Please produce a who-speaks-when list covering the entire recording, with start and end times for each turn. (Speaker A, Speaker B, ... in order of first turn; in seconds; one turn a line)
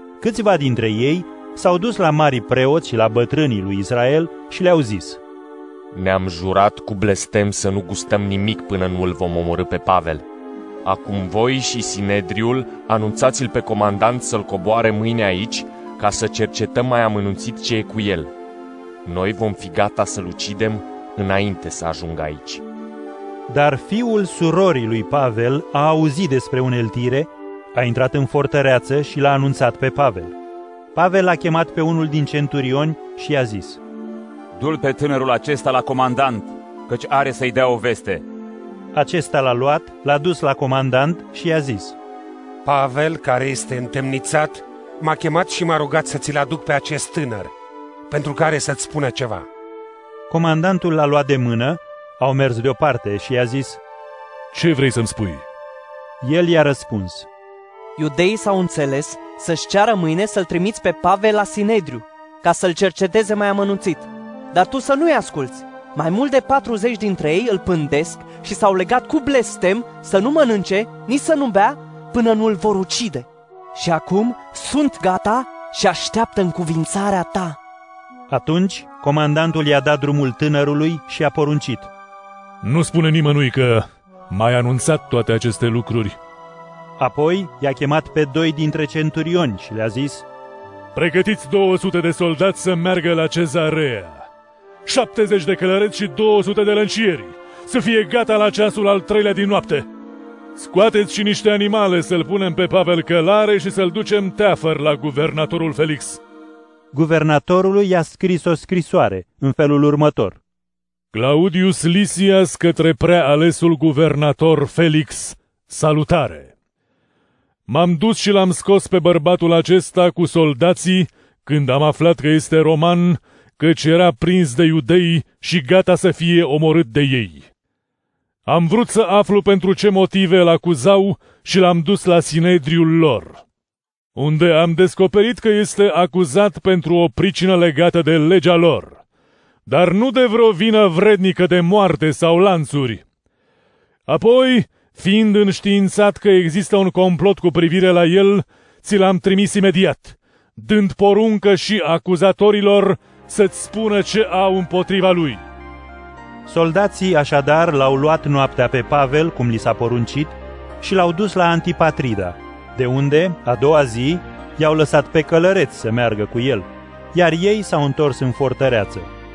Speaker A: 0.2-5.2
Speaker B: 5.9-10.2
Speaker B: 10.8-18.3
Speaker B: 19.0-22.6
Speaker A: 23.5-30.3
Speaker A: 30.9-33.8
Speaker C: 34.6-38.2
Speaker A: 38.9-42.0
Speaker D: 42.6-47.5
Speaker D: 48.1-49.5
Speaker A: 50.3-53.8
Speaker E: 54.5-55.4
Speaker A: 56.2-57.3
Speaker F: 58.0-77.6
Speaker A: 78.3-81.9
Speaker E: 82.6-86.2
Speaker A: 87.0-90.2
Speaker E: 90.9-94.2
Speaker E: 94.8-99.9
Speaker E: 100.5-106.2
Speaker A: 106.9-110.4
Speaker E: 111.1-116.5
Speaker E: 117.7-127.5
Speaker E: 128.4-133.4
Speaker E: 134.2-139.0
Speaker E: 139.7-143.0
Speaker E: 144.1-155.4
Speaker A: 156.4-169.1